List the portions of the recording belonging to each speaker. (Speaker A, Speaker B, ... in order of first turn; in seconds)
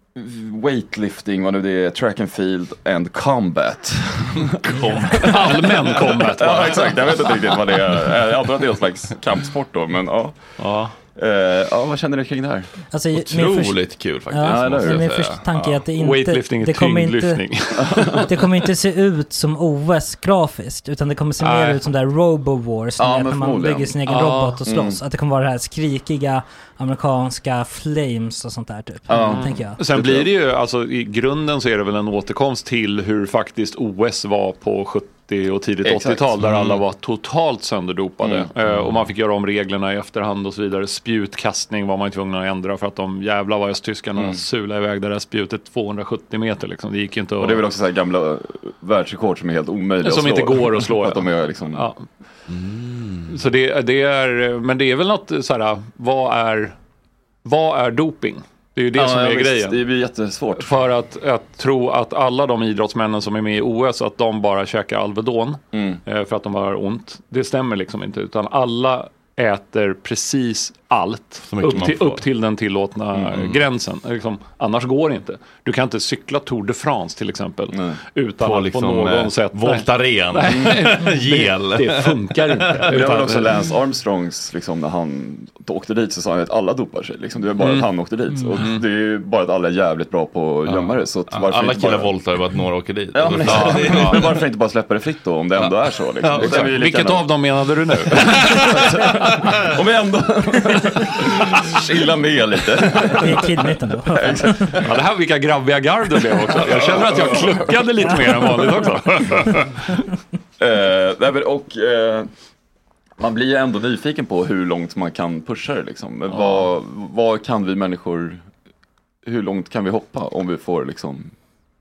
Speaker A: 0.1-10.4, 11.1-12.7, 14.4-15.1, 17.9-18.1, 23.0-23.9, 24.6-25.0, 29.1-30.3, 35.8-36.8, 38.2-38.8, 44.1-44.4, 47.4-51.9, 58.9-60.8, 65.7-66.0, 73.1-73.6, 77.7-78.0, 80.5-80.7, 82.9-92.1, 93.1-97.4, 98.1-103.5, 104.1-105.0, 106.4-108.8, 110.6-112.3, 113.2-118.4, 119.2-121.3
Speaker B: 4.4-6.3, 13.1-15.8, 52.5-53.4, 71.4-72.2, 78.4-83.0, 90.7-94.4, 95.6-96.7
Speaker C: 4.7-5.1, 12.9-17.4, 18.2-29.8, 103.1-104.8
Speaker D: 5.2-7.2, 10.6-10.9, 15.9-18.3, 21.4-21.8, 24.1-24.6, 29.2-47.6, 50.0-52.0, 53.3-56.8, 57.4-59.8, 60.6-83.5, 87.6-87.9, 88.6-88.8, 93.5-94.2, 96.4-99.1, 104.8-110.0, 116.3-116.7